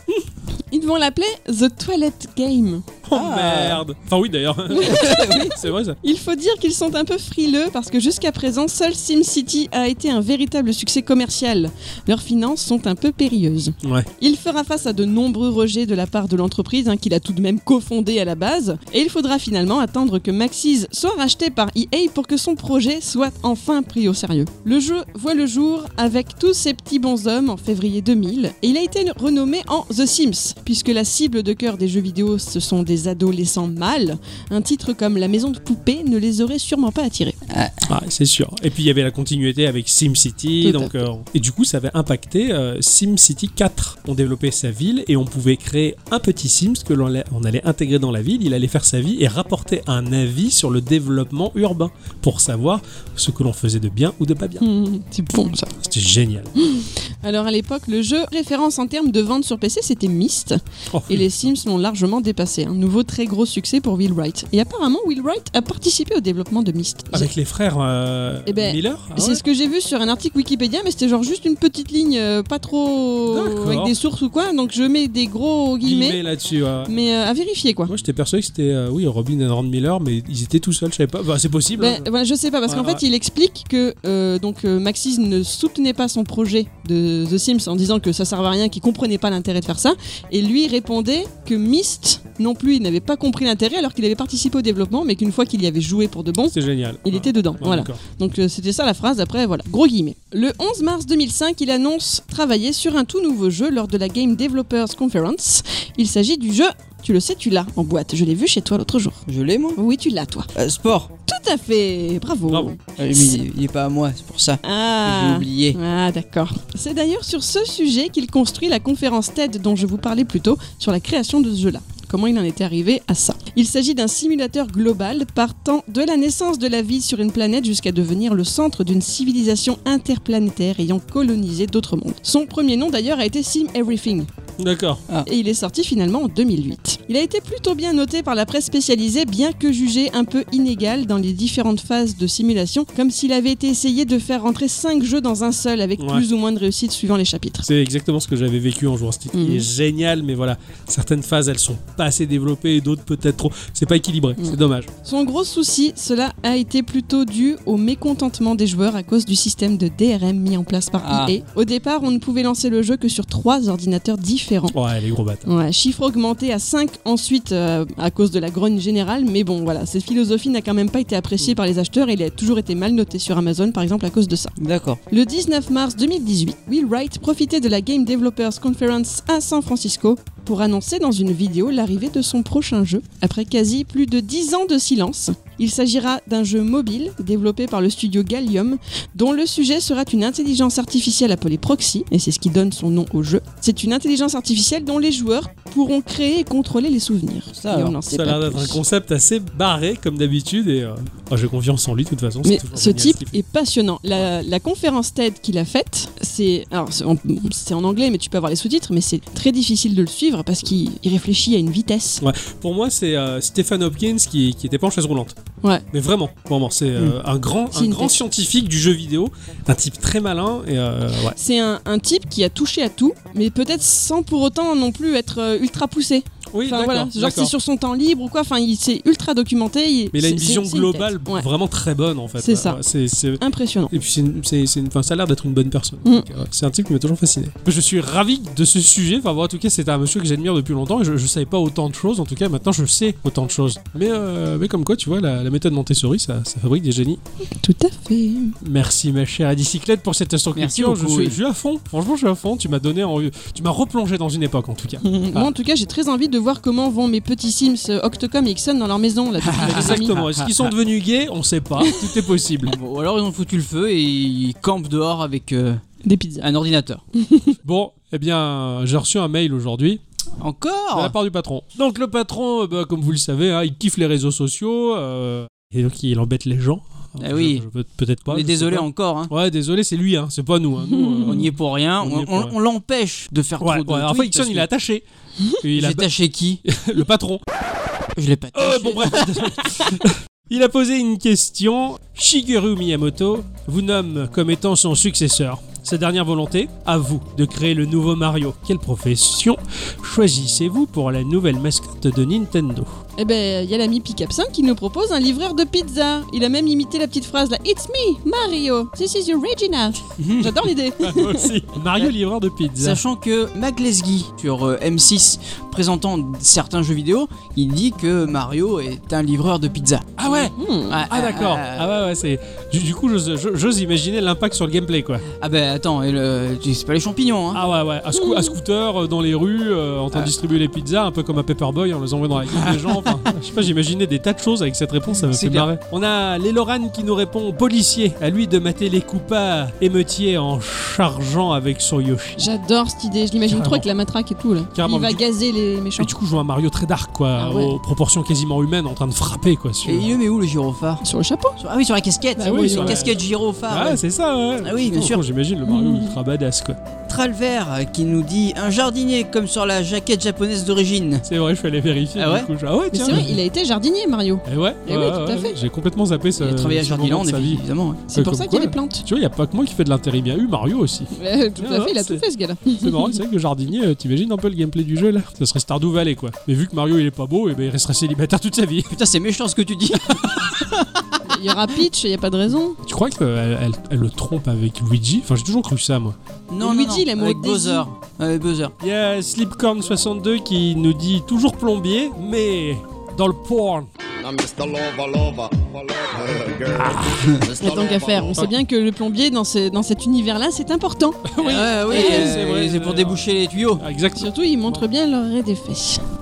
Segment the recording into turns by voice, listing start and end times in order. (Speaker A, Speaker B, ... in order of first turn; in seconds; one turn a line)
Speaker A: 0.7-2.9
Speaker B: 3.0-6.0
Speaker C: 3.1-3.8
Speaker A: 4.8-5.3
Speaker C: 4.8-5.6
Speaker A: 6.0-37.4
Speaker B: 13.8-14.1
Speaker C: 37.5-37.9
Speaker B: 37.9-54.6
Speaker A: 40.6-41.0
Speaker A: 54.6-55.7
Speaker B: 55.8-56.5
Speaker A: 56.6-67.3
Speaker B: 60.9-61.5
Speaker B: 67.1-69.4
Speaker A: 68.5-76.2
Speaker B: 73.3-74.0
Speaker B: 75.8-76.9
Speaker A: 76.9-77.9
Speaker B: 77.9-82.1
Speaker A: 81.8-109.2
Speaker B: 82.7-83.0
Speaker B: 96.5-98.0
Speaker C: 109.3-109.8
Speaker A: 109.8-110.5
Speaker C: 110.5-111.1
Speaker A: 111.3-113.4
Speaker B: 112.5-112.7
Speaker C: 113.0-115.8
Speaker A: 114.6-134.3
Speaker B: 134.6-135.0
Speaker A: 135.3-147.7
Speaker B: 146.0-146.2
Speaker B: 147.7-154.9
Speaker A: 149.3-149.7
Speaker A: 154.4-164.8
Speaker C: 161.0-161.4
Speaker B: 164.7-165.5
Speaker A: 165.5-174.5
Speaker C: 174.6-175.0
Speaker A: 175.1-198.8
Speaker C: 197.6-198.0
Speaker B: 198.1-203.4
Speaker A: 202.4-212.2
Speaker B: 212.2-215.4
Speaker B: 215.9-221.4
Speaker A: 217.7-218.2
Speaker A: 221.4-231.5
Speaker B: 226.5-227.5
Speaker B: 230.1-247.2
Speaker A: 232.4-232.8
Speaker A: 233.4-233.9
Speaker A: 247.5-248.6
Speaker B: 248.6-255.1
Speaker C: 250.6-251.4
Speaker C: 255.0-255.4
Speaker A: 255.3-260.2
Speaker C: 259.5-260.7
Speaker B: 259.5-262.7
Speaker A: 261.8-262.1
Speaker C: 262.6-265.8
Speaker A: 266.0-266.4
Speaker C: 266.4-267.0
Speaker A: 267.1-267.6
Speaker B: 267.6-270.0
Speaker C: 270.4-271.1
Speaker B: 270.9-282.6
Speaker C: 277.2-277.6
Speaker C: 278.3-279.3
Speaker A: 281.0-281.4
Speaker C: 281.2-284.7
Speaker B: 283.6-285.1
Speaker B: 285.6-286.1
Speaker C: 285.7-286.6
Speaker B: 286.6-287.4
Speaker C: 288.2-289.3
Speaker B: 288.5-302.9
Speaker A: 303.2-311.6
Speaker C: 310.2-310.6
Speaker B: 311.0-313.0
Speaker C: 312.8-320.2
Speaker B: 320.2-320.6
Speaker A: 320.6-321.0
Speaker C: 320.9-321.9
Speaker B: 321.1-325.2
Speaker C: 325.4-327.6
Speaker B: 327.5-342.5
Speaker A: 328.1-328.6
Speaker C: 332.7-333.2
Speaker C: 335.2-335.7
Speaker A: 342.4-346.1
Speaker B: 343.5-343.9
Speaker B: 344.8-345.2
Speaker B: 346.0-350.2
Speaker A: 347.4-347.8
Speaker C: 349.9-351.0
Speaker A: 351.0-351.6
Speaker C: 351.6-354.0
Speaker A: 352.4-353.1
Speaker B: 352.4-356.8
Speaker C: 354.6-355.2
Speaker A: 355.6-356.2
Speaker C: 357.1-361.3
Speaker B: 361.3-363.4
Speaker C: 362.2-362.5
Speaker A: 362.9-365.6
Speaker B: 364.5-372.2
Speaker C: 366.4-368.1
Speaker A: 368.1-369.0
Speaker A: 371.1-373.2
Speaker B: 372.8-379.0
Speaker C: 378.9-381.2
Speaker B: 380.1-380.5
Speaker A: 381.3-382.8
Speaker B: 382.8-386.2
Speaker C: 386.5-388.7
Speaker A: 386.6-387.9
Speaker B: 388.8-393.9
Speaker D: 394.2-398.5
Speaker B: 396.8-397.2
Speaker C: 397.0-397.4
Speaker A: 397.6-401.3
Speaker B: 401.3-403.2
Speaker C: 401.4-403.8
Speaker A: 401.9-402.4
Speaker B: 403.8-404.8
Speaker A: 404.2-406.0